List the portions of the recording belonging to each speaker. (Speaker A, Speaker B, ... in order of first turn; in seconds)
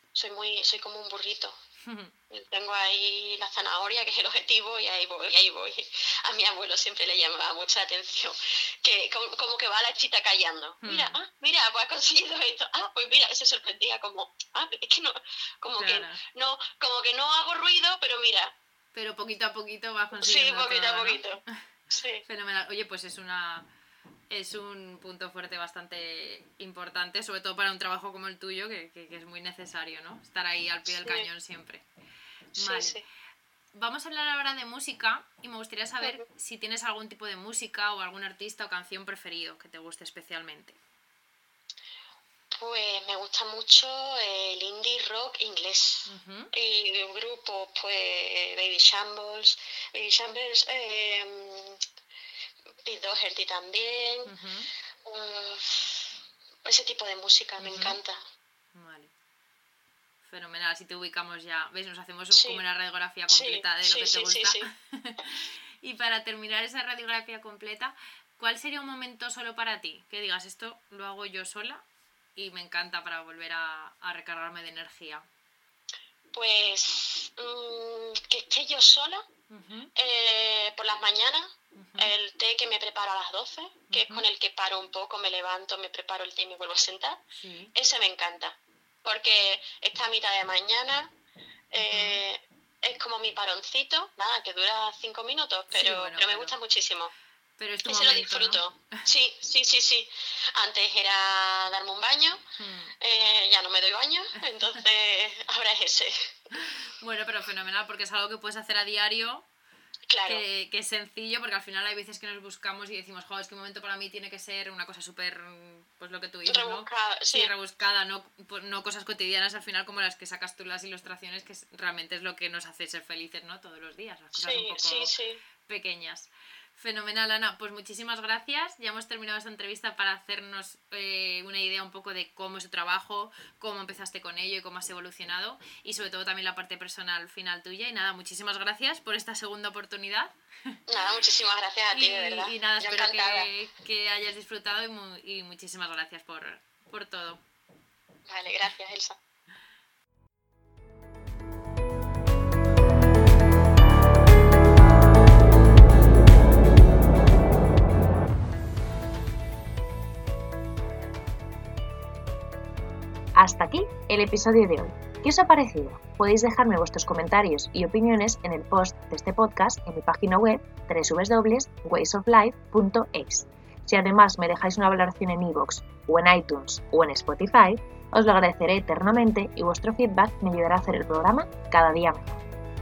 Speaker A: 0.1-1.6, 2.3-18.5, 20.2-22.2, 31.0-31.3, 32.6-33.0, 42.5-51.8, 52.9-54.3, 55.0-56.1, 56.6-58.2, 62.3-62.6, 63.3-64.7, 76.3-79.3, 80.0-87.2, 87.7-91.1, 91.7-97.1, 97.8-102.4, 103.0-106.5, 110.1-110.4, 116.5-117.5, 124.3-125.4, 140.9-143.5, 148.3-149.2
Speaker B: 1.8-2.1, 10.8-11.2, 15.8-16.2, 18.9-21.5, 22.2-23.7, 24.3-31.9, 32.5-33.0, 33.8-40.8, 46.1-46.5, 54.3-54.7, 57.6-58.0, 58.7-59.1, 60.2-71.8, 72.4-75.3, 79.5-79.9, 81.8-82.2, 83.9-84.3, 87.3-87.7, 91.8-92.2, 95.7-96.6, 97.6-99.0, 102.6-102.9, 106.5-109.5, 110.3-125.1, 125.7-140.8, 141.9-147.4
Speaker C: 163.4-182.4